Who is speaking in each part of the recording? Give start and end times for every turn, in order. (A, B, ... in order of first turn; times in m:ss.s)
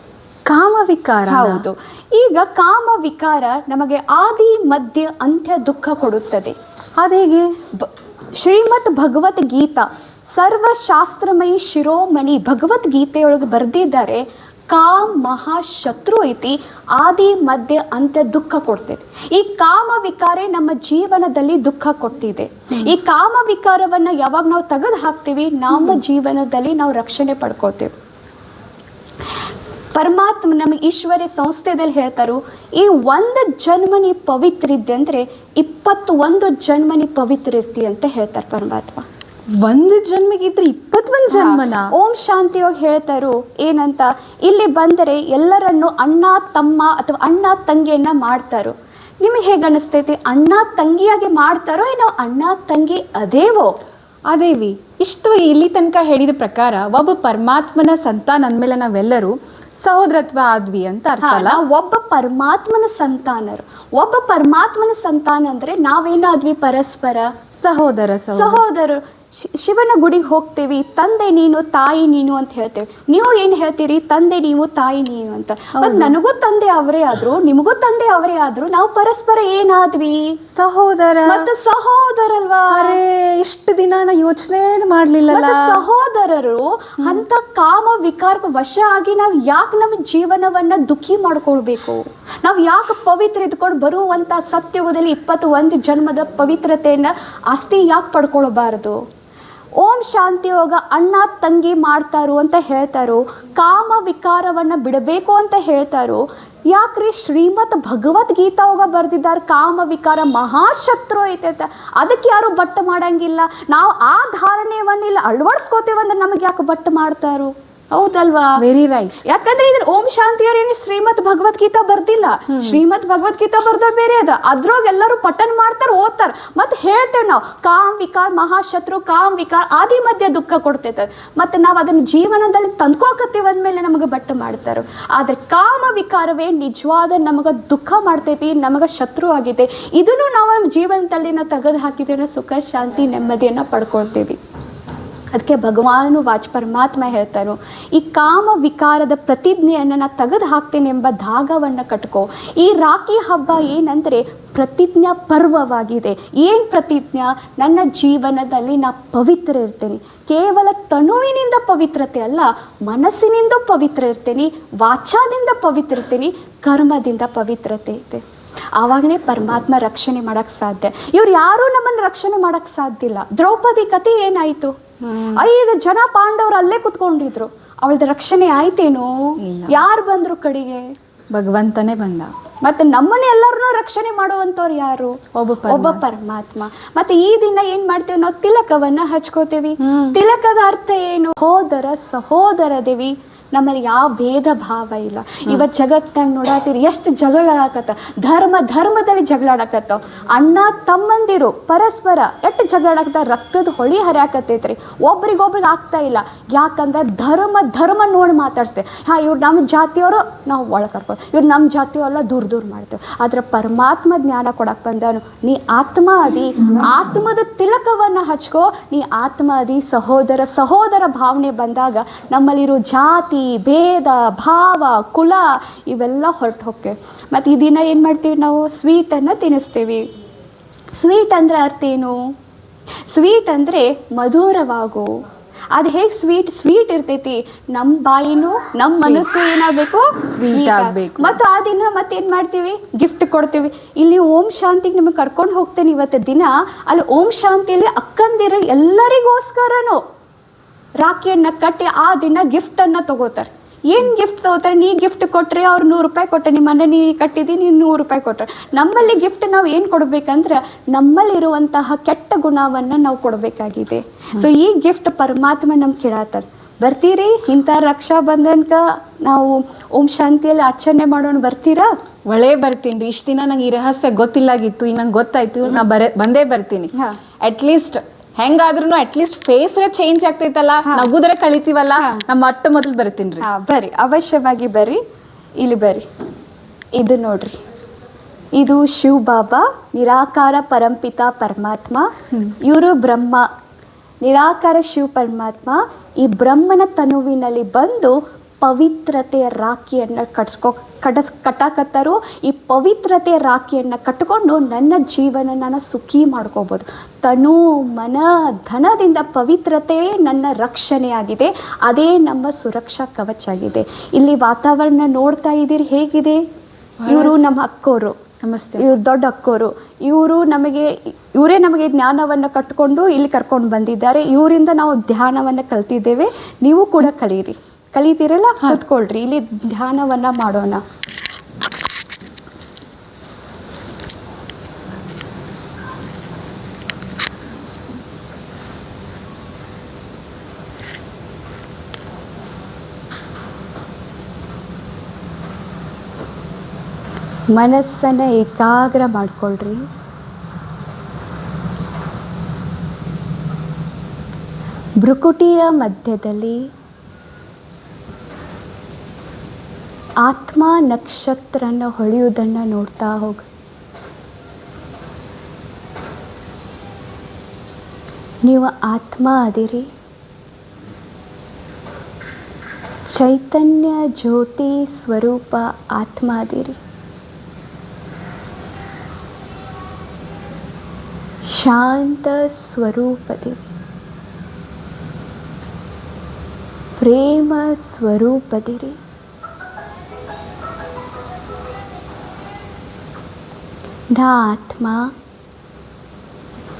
0:00.5-0:01.6 A
0:01.3-0:06.5 B
0:07.0-0:07.6 A
0:07.7-0:27.9 B
0:25.7-0:26.0 A
0:29.9-0:39.0 B
0:39.6-0:41.9 A
0:41.3-0:53.7 B
0:54.3-1:01.6 A
1:01.2-1:07.3 B
1:07.5-1:08.6 A
1:08.3-1:20.4 B
1:15.8-1:16.2 A
1:20.5-1:21.5 A
1:21.2-1:23.0 B
1:22.7-1:25.8 A
1:25.3-1:39.0 B
1:39.8-1:58.6 B
1:58.6-1:59.2 A
1:59.2-2:24.4 B
2:02.5-2:02.8 A
2:25.3-2:48.2 B
2:48.8-2:54.7 B
2:55.0-2:55.4 A
2:55.3-3:00.9 B
2:59.4-2:59.8 A
3:01.3-3:02.3 A
3:02.6-3:50.0 B
3:05.3-3:06.0 A
3:09.8-3:10.2 A
3:50.9-3:52.2 B
3:53.1-3:55.1 B
3:55.7-4:10.0 B
3:59.0-3:59.3 A
4:00.2-4:01.4 A
4:11.0-4:31.9 B
4:32.3-4:36.9 A
4:36.9-4:37.2 B
4:37.4-4:43.4 A
4:40.8-4:41.1 B
4:42.0-4:42.2 B
4:43.4-4:45.0 B
4:45.6-4:46.1 B
4:46.9-4:47.6 B
4:48.5-4:53.4 B
4:54.2-5:16.4 B
5:17.0-5:17.5 A
5:17.1-5:18.2 B
5:18.4-5:18.8 A
5:18.8-5:30.8 B
5:47.5-5:49.8 B
5:55.0-5:56.6 B
6:00.2-6:03.5 B
6:08.4-6:09.9 B
6:13.1-6:16.8 B
6:21.4-6:23.6 B
6:27.0-6:29.0 B
6:34.1-6:35.1 B